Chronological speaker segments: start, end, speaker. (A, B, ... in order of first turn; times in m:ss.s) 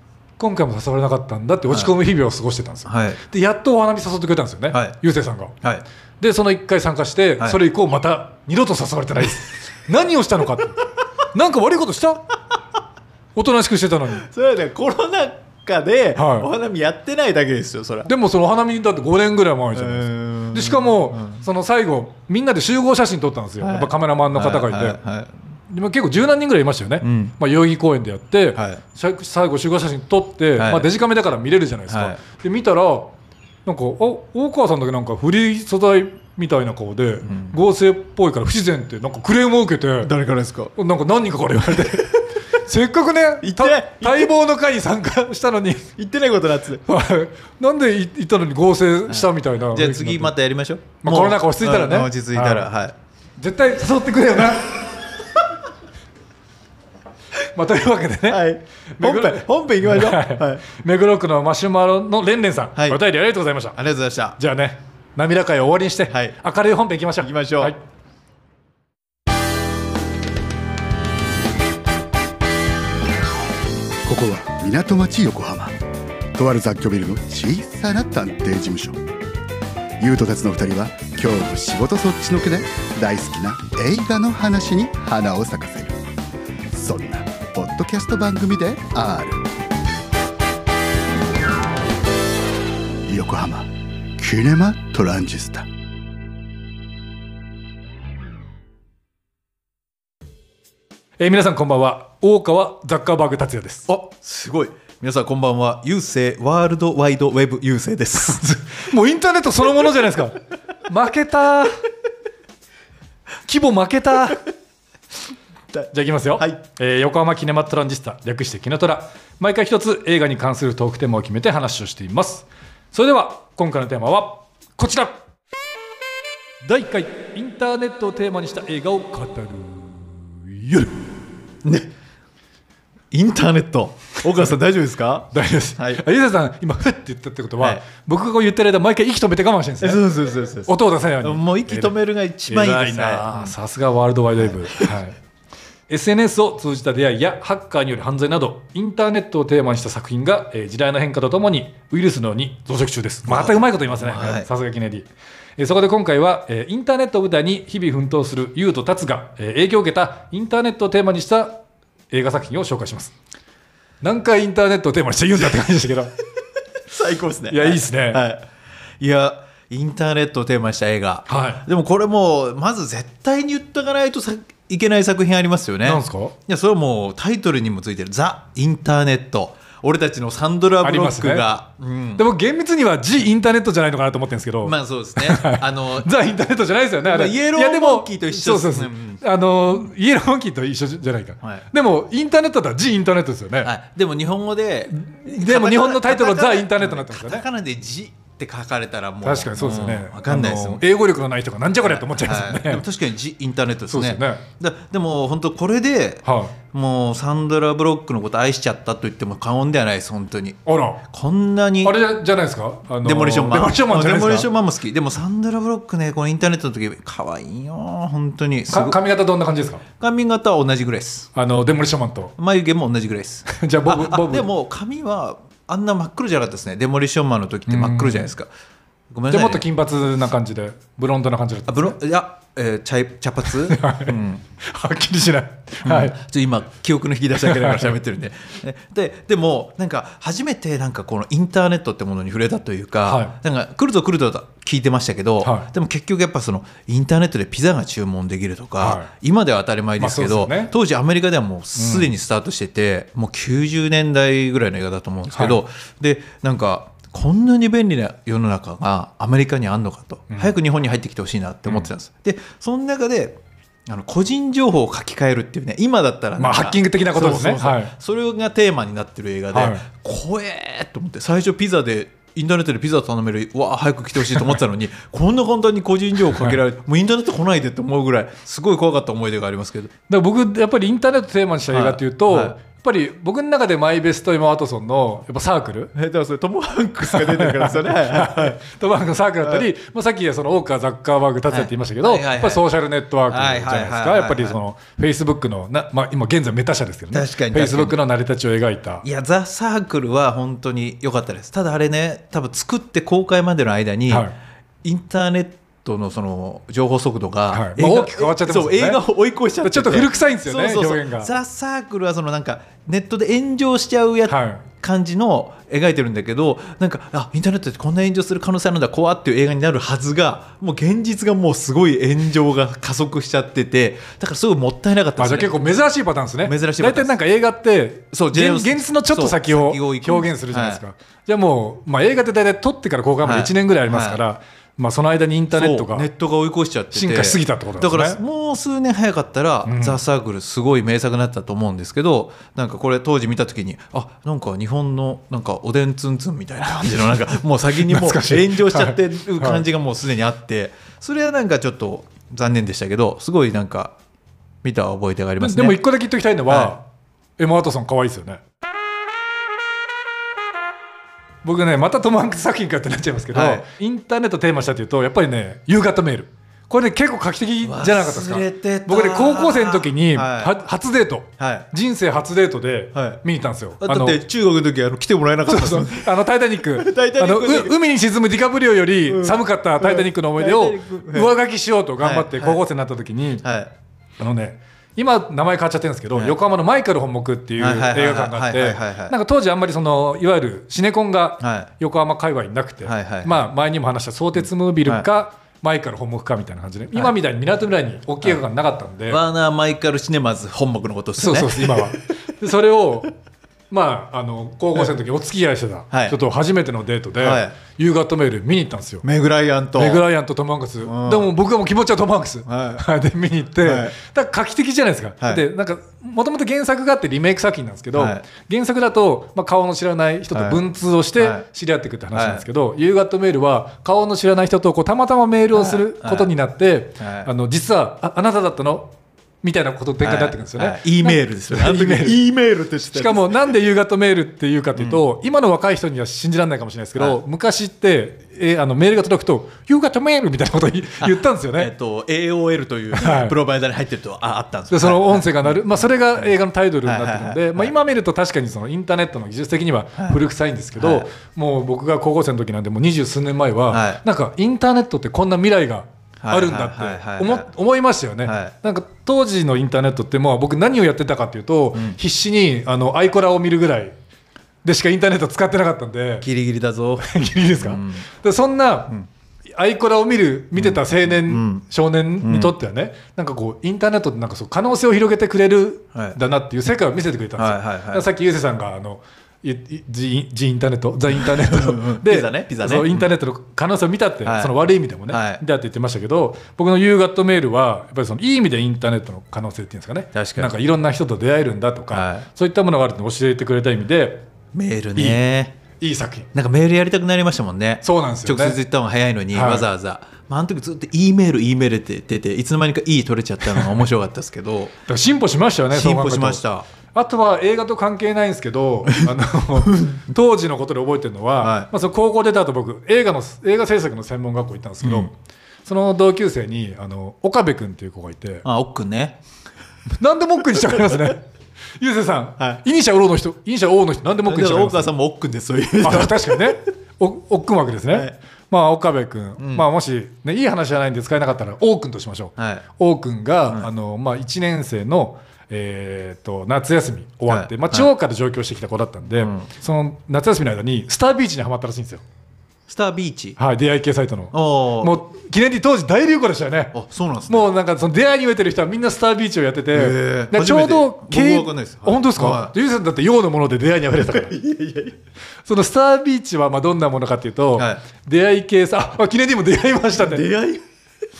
0:00.4-0:05.5 A
0:02.9-0:03.2 B
0:04.7-0:05.0 B
0:06.2-0:12.3 A
0:13.3-0:14.2 A
0:14.1-0:18.1 B
0:16.1-0:16.5 A
0:18.0-0:25.0 A
0:19.7-0:21.4 B
0:23.6-0:25.3 B
0:25.7-0:33.1 A
0:27.0-0:27.3 B
0:28.6-0:28.8 B
0:30.6-0:30.9 B
0:31.9-0:32.2 B
0:33.6-0:40.1 A
0:37.2-0:37.5 B
0:40.0-0:40.7 B
0:40.7-0:45.9 A
0:43.4-0:44.3 B
0:46.0-0:46.8 B
0:46.8-0:50.3 A
0:49.1-0:52.9 B
0:51.0-0:52.7 A
0:53.4-0:54.7 A
0:57.5-0:58.4 A
0:58.3-1:00.6 B
0:59.0-1:03.8 A
1:02.8-1:03.0 B
1:03.7-1:04.4 B
1:04.4-1:07.8 A
1:06.1-1:06.4 B
1:07.2-1:07.7 B
1:14.0-1:15.7 C
1:16.3-1:19.0 C
1:20.0-1:26.0 C
1:26.7-1:29.4 C
1:33.1-1:35.6 C
1:41.2-1:43.9 A
1:43.9-1:48.4 B
1:48.2-1:51.8 A
1:53.4-1:54.4 A
1:55.9-2:05.2 A
2:06.6-2:11.1 A
2:11.6-2:11.9 B
2:13.1-2:16.0 B
2:15.3-2:20.0 A
2:19.8-2:23.5 B
2:20.6-2:21.9 A
2:22.5-2:25.2 A
2:24.4-2:24.9 B
2:25.9-2:43.1 A
2:33.3-2:34.5 B
2:44.0-2:46.1 A
2:46.9-2:48.4 B
2:47.5-2:48.2 A
2:49.0-3:02.2 B
2:51.3-2:51.6 A
2:55.8-2:56.3 A
3:00.8-3:01.5 A
3:02.2-3:13.7 A
3:04.6-3:06.1 B
3:07.0-3:09.2 B
3:13.6-3:20.8 B
3:14.9-3:17.4 A
3:19.2-3:22.8 A
3:21.8-3:32.0 B
3:23.9-3:24.4 A
3:26.2-3:26.6 A
3:30.6-3:31.0 A
3:31.8-3:34.5 A
3:33.0-3:39.0 B
3:38.7-3:39.8 A
3:40.0-3:41.3 B
3:41.3-3:42.3 A
3:42.4-3:48.5 B
3:43.4-3:44.5 A
3:47.7-3:48.3 A
3:49.1-3:49.6 B
3:49.3-3:52.0 A
3:51.7-3:54.4 B
3:53.5-3:56.1 A
3:55.8-4:39.9 B
3:57.4-3:58.0 A
4:03.0-4:03.3 A
4:05.4-4:05.7 A
4:08.8-4:09.1 A
4:10.0-4:10.7 A
4:11.8-4:12.1 A
4:15.3-4:15.6 A
4:26.4-4:27.9 A
4:29.5-4:29.8 A
4:40.1-4:45.9 A
4:41.7-4:42.5 B
4:45.9-4:48.6 B
4:47.0-4:59.0 A
4:51.5-4:52.7 B
4:53.3-4:54.6 B
4:57.1-4:57.9 B
4:59.0-5:04.3 B
5:04.1-5:04.3 A
5:04.8-5:25.5 B
5:07.5-5:09.0 A
5:09.6-5:11.3 A
5:14.3-5:14.6 A
5:25.2-5:36.1 A
5:26.4-5:27.1 B
5:28.1-5:30.8 B
5:33.2-5:34.2 B
5:35.5-5:53.9 B
5:36.9-5:38.2 A
5:39.6-5:40.0 A
5:47.8-5:49.6 A
5:54.6-5:55.8 B
5:55.4-5:56.8 A
5:56.5-5:56.7 B
5:57.4-5:58.4 A
6:01.4-6:14.2 A
6:03.3-6:03.6 B
6:07.6-6:10.5 B
6:11.4-6:11.7 B
6:12.9-6:13.2 B
6:13.8-6:17.7 B
6:15.5-6:23.4 A
6:19.1-6:21.3 B
6:22.0-6:22.6 B
6:23.4-6:23.7 B
6:24.2-6:39.2 A
6:27.6-6:29.1 B
6:31.4-6:31.7 B
6:32.8-6:33.4 B
6:39.1-6:42.0 B
6:41.2-6:43.1 A
6:43.7-6:49.0 A
6:45.9-6:46.2 B
6:47.2-6:47.5 B
6:49.0-6:50.0 B
6:49.7-7:08.9 A
6:50.8-6:51.3 B
6:52.4-6:52.8 B
6:53.6-6:53.9 B
6:57.9-6:58.2 B
7:00.3-7:00.6 B
7:01.2-7:01.4 B
7:02.1-7:02.4 B
7:05.5-7:06.3 B
7:07.0-7:07.3 B
7:09.4-7:12.2 A
7:10.0-7:13.5 B
7:12.9-7:21.7 A
7:21.0-7:27.7 B
7:22.9-7:23.4 A
7:24.7-7:43.9 A
7:30.8-7:31.1 B
7:33.7-7:34.0 B
7:36.2-7:37.5 B
7:38.2-7:38.5 B
7:44.6-7:46.2 A
7:46.2-7:48.1 B
7:47.0-7:48.9 A
7:49.5-8:14.3 A
7:50.5-7:51.6 B
7:52.2-7:52.6 B
7:57.4-7:58.1 B
8:01.1-8:03.1 B
8:04.2-8:04.5 B
8:05.1-8:05.4 B
8:10.1-8:10.5 B
8:11.9-8:12.3 B
8:14.5-8:15.5 B
8:15.8-8:16.3 A
8:16.3-8:24.7 B
8:17.8-8:18.6 A
8:19.3-8:19.7 A
8:24.9-8:26.4 A
8:25.7-8:26.7 B
8:26.9-8:35.1 A
8:31.4-8:31.7 B
8:34.8-8:35.1 B
8:35.6-8:38.4 A
8:38.4-8:39.2 B
8:40.0-8:41.2 A
8:40.7-8:41.1 B
8:41.8-8:44.9 A
8:44.2-8:46.6 B
8:45.8-9:02.0 A
8:49.4-8:49.6 B
8:52.4-8:52.6 B
8:57.3-8:57.9 B
8:59.2-8:59.5 B
9:02.7-9:03.4 B
9:03.4-9:06.8 A
9:04.3-9:05.0 B
9:06.7-9:07.5 B
9:07.3-9:14.3 A
9:09.7-9:12.5 B
9:14.1-9:15.0 B
9:15.4-9:20.2 A
9:17.6-9:17.8 B
9:20.0-9:20.6 B